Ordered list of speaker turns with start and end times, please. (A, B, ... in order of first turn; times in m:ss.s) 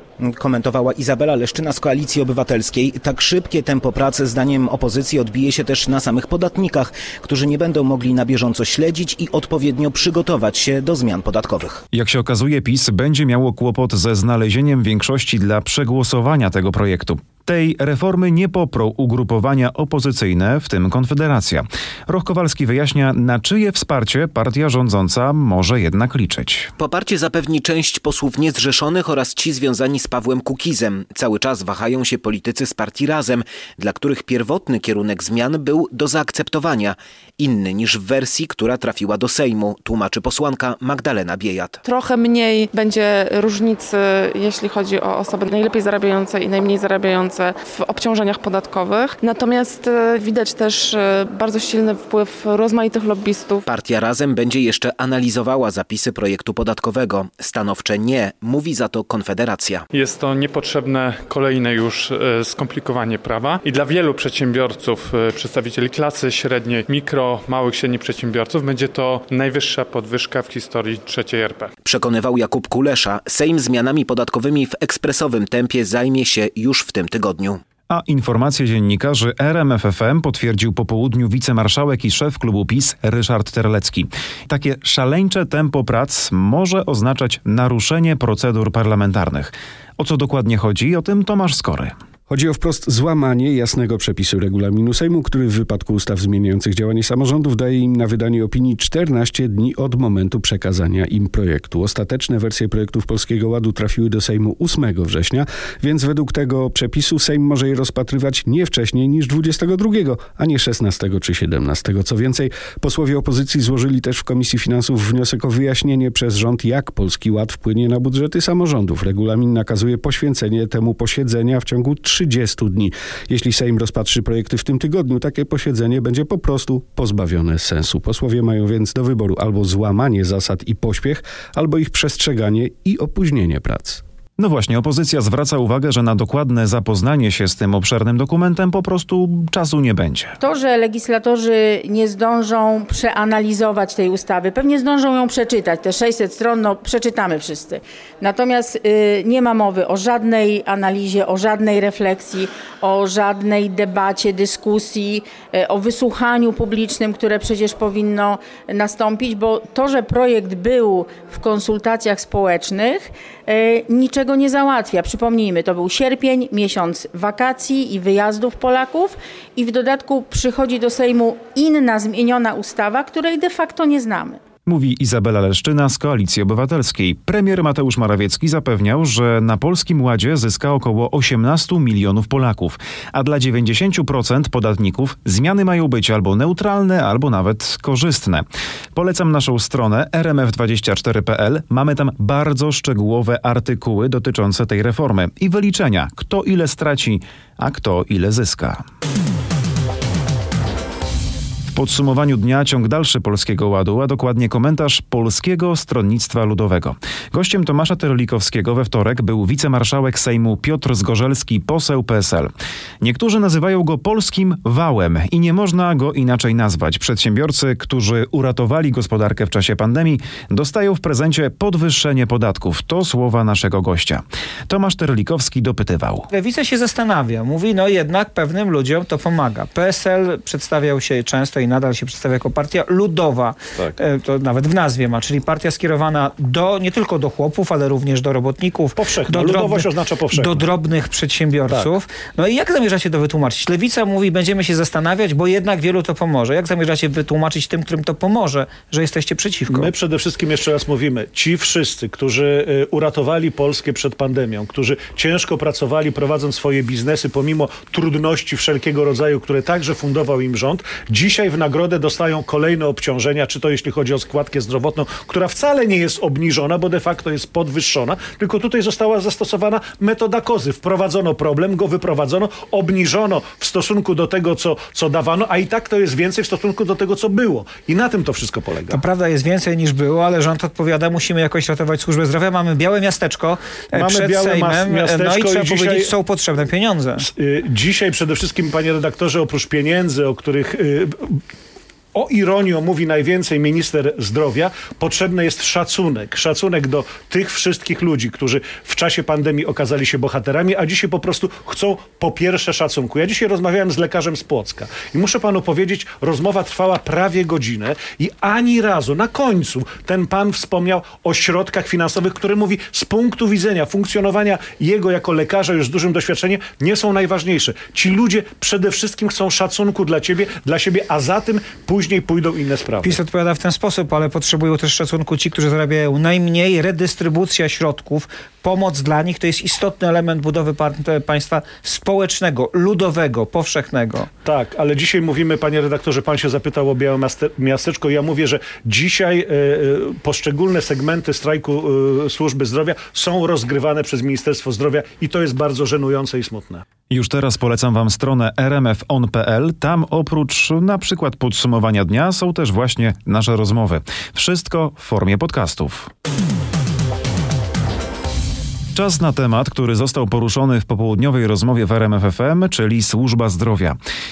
0:00.2-0:11.8 A
0:11.9-0:26.7 B
0:26.8-0:41.8 A
0:41.8-0:53.6 C
0:53.6-0:59.8 A
0:59.9-1:11.7 D
1:11.8-1:17.6 A
1:17.9-1:31.9 B
1:32.3-2:14.0 E
2:14.4-2:20.4 B
2:20.4-2:54.4 F
2:54.6-3:18.8 B
3:21.7-3:46.3 B
3:46.3-4:09.9 G
3:59.0-4:00.7 H
4:09.7-4:39.0 H
4:38.9-4:47.2 G
4:43.9-4:46.1 H
4:47.2-4:51.4 H
4:52.1-5:23.2 H
5:23.0-5:34.3 G
5:34.4-5:46.8 H
5:47.1-5:56.1 B
5:58.9-6:04.0 B